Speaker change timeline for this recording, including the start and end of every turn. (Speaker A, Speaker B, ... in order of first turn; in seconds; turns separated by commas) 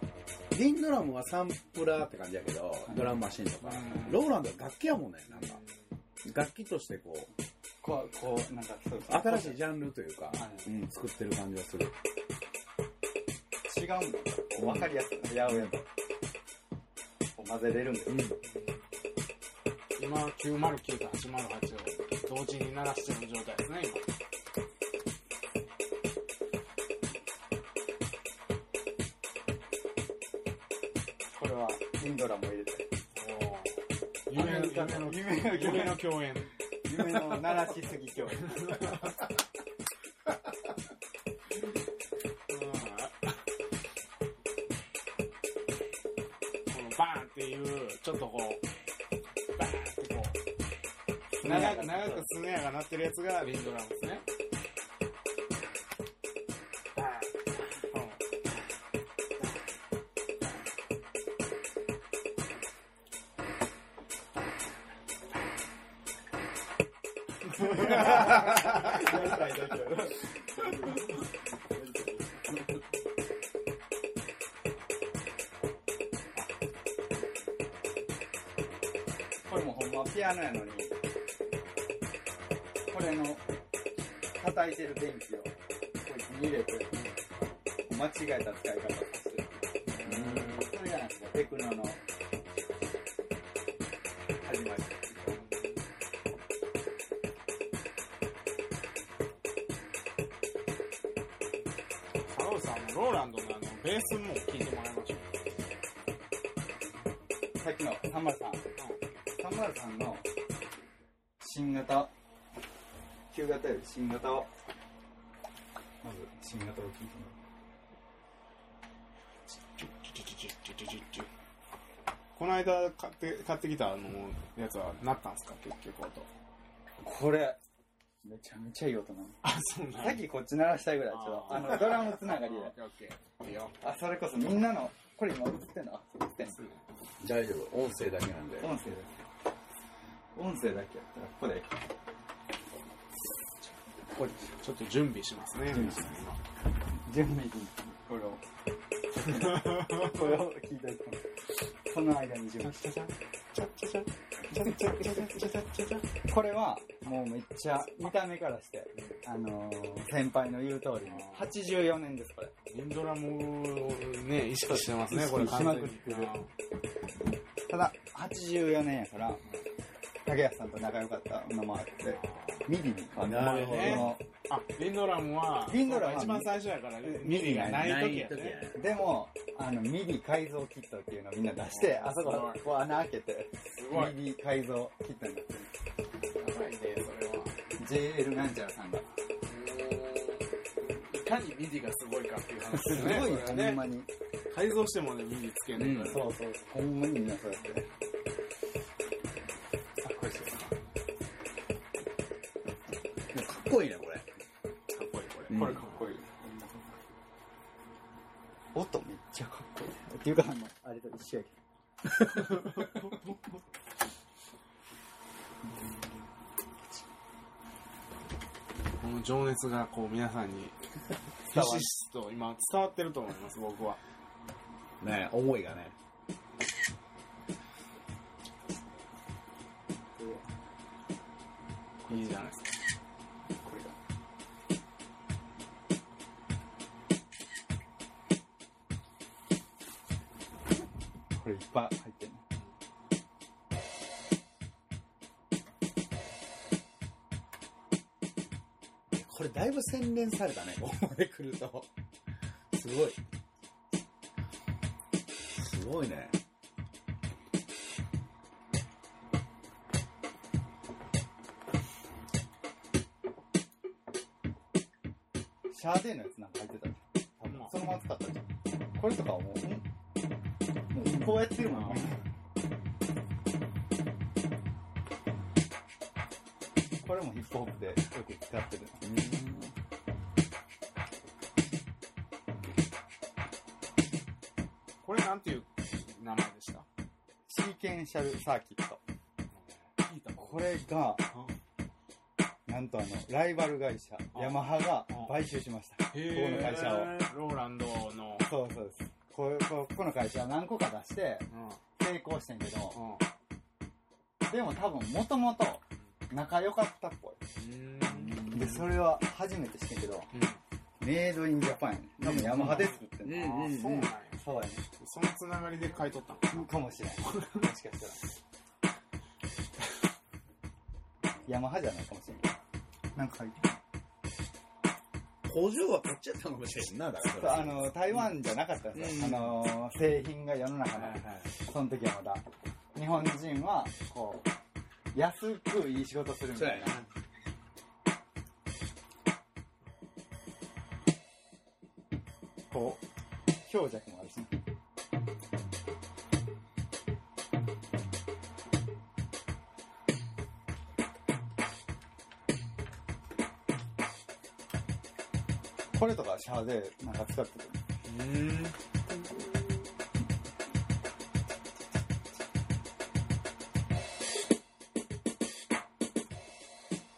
Speaker A: 0.5-5.6, Speaker B: 2.9-3.2, Speaker C: 3.6-4.2, Speaker C: 5.3-5.8, Speaker A: 6.2-7.3, Speaker B: 7.8-9.6, Speaker A: 9.1-11.9, Speaker B: 10.3-10.7, Speaker B: 13.7-15.9, Speaker A: 14.6-14.9, Speaker A: 15.4-15.7, Speaker B: 17.4-18.3, Speaker A: 18.1-18.4, Speaker C: 18.4-18.8, Speaker C: 20.0-24.1, Speaker B: 31.3-32.9, Speaker C: 33.1-36.5, Speaker B: 34.3-36.1, Speaker B: 36.9-39.1, Speaker C: 38.4-39.1, Speaker C: 42.5-43.4, Speaker C: 46.7-48.6, Speaker C: 49.5-50.4, Speaker B: 51.4-52.3, Speaker C: 51.4-54.2, Speaker C: 57.0-58.2, Speaker C: 67.5-69.1, Speaker B: 67.6-72.6, Speaker B: 79.5-81.0, Speaker B: 82.9-83.5, Speaker B: 84.4-87.0, Speaker B: 87.9-92.0, Speaker C: 89.9-90.7, Speaker A: 90.0-90.6, Speaker B: 94.4-95.4, Speaker C: 95.3-95.7, Speaker C: 102.2-105.3, Speaker B: 107.6-108.7, Speaker B: 109.4-110.3, Speaker B: 111.4-112.1, Speaker B: 113.3-114.5, Speaker B: 116.0-117.4, Speaker C: 119.8-121.3, Speaker C: 122.4-126.3, Speaker B: 127.0-127.6, Speaker B: 128.2-129.4, Speaker C: 129.4-130.2, Speaker B: 130.0-132.7, Speaker C: 131.1-133.7, Speaker B: 133.8-136.6, Speaker C: 136.4-136.8, Speaker A: 137.2-138.7, Speaker B: 138.6-139.2, Speaker B: 140.3-141.8, Speaker C: 144.5-146.4, Speaker B: 145.7-146.1, Speaker B: 147.0-148.4, Speaker B: 149.1-151.3, Speaker C: 149.2-150.2, Speaker B: 151.8-153.1, Speaker C: 153.5-156.1, Speaker B: 154.7-155.1, Speaker B: 156.2-162.5, Speaker C: 161.1-161.5, Speaker C: 162.7-166.5, Speaker B: 164.7-166.3, Speaker B: 167.7-169.4, Speaker B: 170.2-174.2, Speaker C: 172.1-172.7, Speaker A: 173.2-174.2, Speaker C: 173.3-178.6, Speaker B: 175.7-178.1, Speaker A: 177.5-178.8, Speaker B: 178.7-185.7, Speaker C: 181.6-182.7, Speaker C: 183.7-184.2, Speaker C: 186.3-187.6, Speaker B: 187.8-189.1, Speaker C: 189.4-193.9, Speaker B: 192.7-194.1, Speaker C: 194.5-196.2, Speaker A: 195.8-196.2, Speaker B: 196.1-197.9, Speaker B: 200.0-200.7, Speaker A: 203.3-204.3, Speaker C: 204.9-206.1, Speaker B: 205.5-206.9, Speaker B: 208.7-211.5, Speaker C: 212.4-213.0, Speaker B: 212.6-213.2, Speaker C: 219.0-220.8, Speaker C: 221.4-224.0, Speaker B: 221.5-221.9, Speaker A: 225.0-225.9, Speaker B: 230.2-230.4, Speaker C: 232.1-232.7, Speaker B: 233.6-234.0, Speaker B: 241.3-242.4, Speaker A: 249.1-251.9, Speaker A: 252.7-253.2, Speaker A: 255.5-256.4, Speaker B: 265.7-269.9, Speaker C: 267.4-267.8, Speaker B: 270.9-272.2, Speaker C: 271.8-272.1, Speaker B: 277.0-279.3, Speaker A: 279.1-279.7, Speaker C: 285.0-286.9, Speaker B: 287.5-289.0, Speaker C: 289.5-290.8, Speaker B: 290.4-291.3, Speaker B: 292.7-297.3, Speaker C: 294.3-295.4, Speaker C: 296.1-298.5, Speaker B: 298.4-301.5, Speaker C: 301.5-301.8, Speaker B: 302.0-303.0, Speaker C: 302.9-303.2, Speaker B: 304.5-307.4, Speaker C: 307.6-308.9, Speaker B: 308.4-310.3, Speaker C: 310.3-310.6, Speaker B: 311.0-313.8, Speaker C: 312.2-314.4, Speaker A: 312.8-314.1, Speaker B: 314.4-314.9, Speaker C: 315.0-316.7, Speaker B: 316.5-318.2, Speaker C: 317.3-317.6, Speaker B: 321.5-322.5, Speaker B: 323.1-323.8, Speaker A: 325.4-328.3, Speaker B: 327.2-334.5, Speaker A: 328.9-329.6, Speaker A: 330.9-331.5, Speaker B: 335.1-337.0, Speaker A: 336.6-337.1, Speaker B: 342.7-343.0, Speaker B: 343.6-344.6, Speaker B: 355.9-357.8, Speaker C: 358.1-358.8